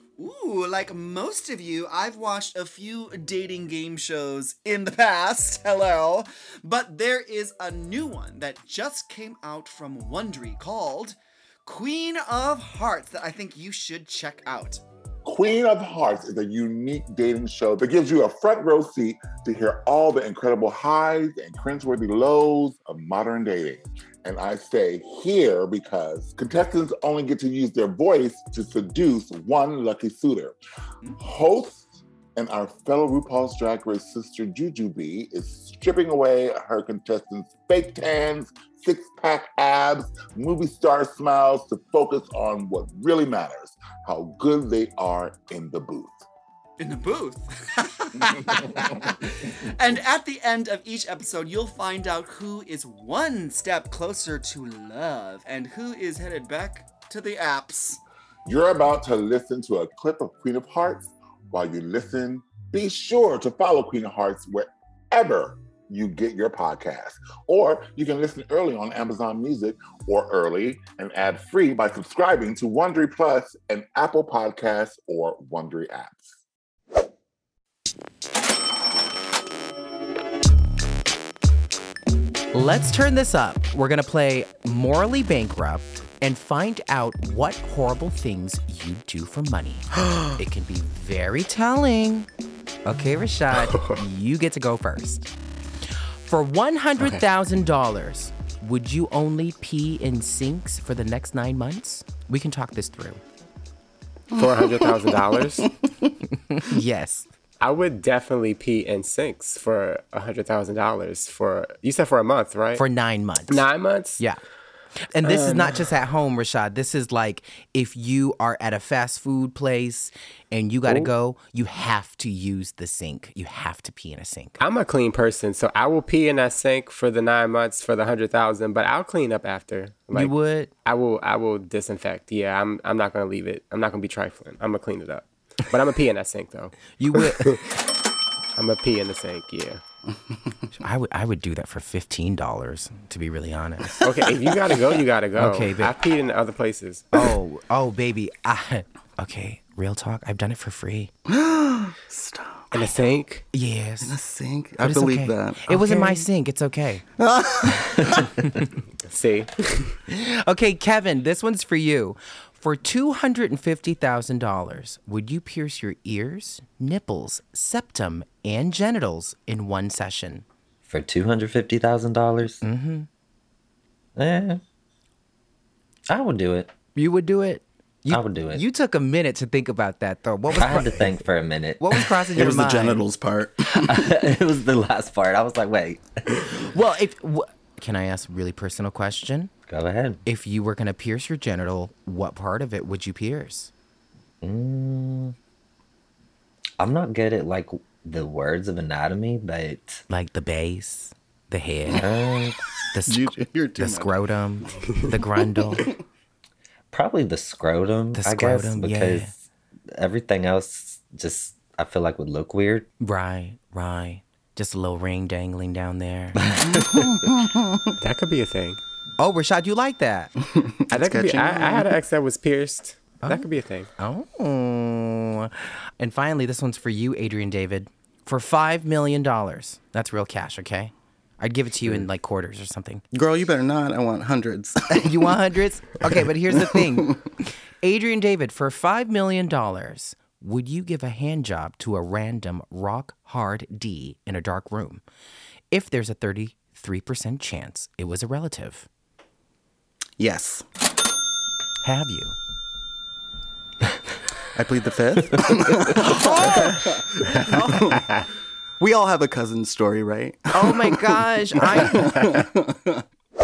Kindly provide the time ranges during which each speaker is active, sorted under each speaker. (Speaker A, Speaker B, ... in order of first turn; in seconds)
Speaker A: 0.2-14.8, 46.8-58.0
Speaker B: 15.2-30.6, 31.2-46.3, 58.5-76.4
Speaker C: 82.5-92.3, 92.9-95.3, 96.2-103.2, 106.4-107.3, 112.8-114.4, 115.1-124.6, 130.1-130.7, 136.9-137.7, 140.8-144.0, 145.3-145.9, 147.2-151.1, 153.5-154.2, 154.8-157.0, 160.1-170.4, 172.6-173.1, 176.9-181.2, 181.8-183.0, 186.5-189.5, 190.2-193.7, 200.1-202.0, 202.9-205.9, 208.1-209.3, 213.0-216.5, 219.2-220.3, 223.2-233.0, 234.9-245.0, 245.7-248.9, 251.8-252.4, 256.4-256.8, 260.5-262.4
Speaker D: 104.3-105.7, 107.6-112.9, 113.5-114.2, 115.2-115.8, 124.6-137.6, 138.6-139.8, 144.0-147.2, 152.7-153.5, 159.0-160.0, 218.0-218.8, 220.9-223.9, 257.4-258.2
Speaker E: 105.6-106.1, 151.3-152.9, 154.0-156.3, 157.2-158.3, 182.3-183.8, 203.0-204.2, 205.0-206.0, 216.6-217.9, 220.5-221.9, 233.1-235.4, 236.1-237.2, 250.2-250.7, 254.5-258.0, 258.8-263.0
Speaker F: 170.8-172.6, 174.2-174.6, 176.1-176.7, 178.1-178.6, 180.5-182.5, 183.6-186.4, 189.7-190.2, 194.4-195.3, 196.8-200.0, 201.9-202.6, 206.9-209.4, 209.9-212.9, 216.6-217.1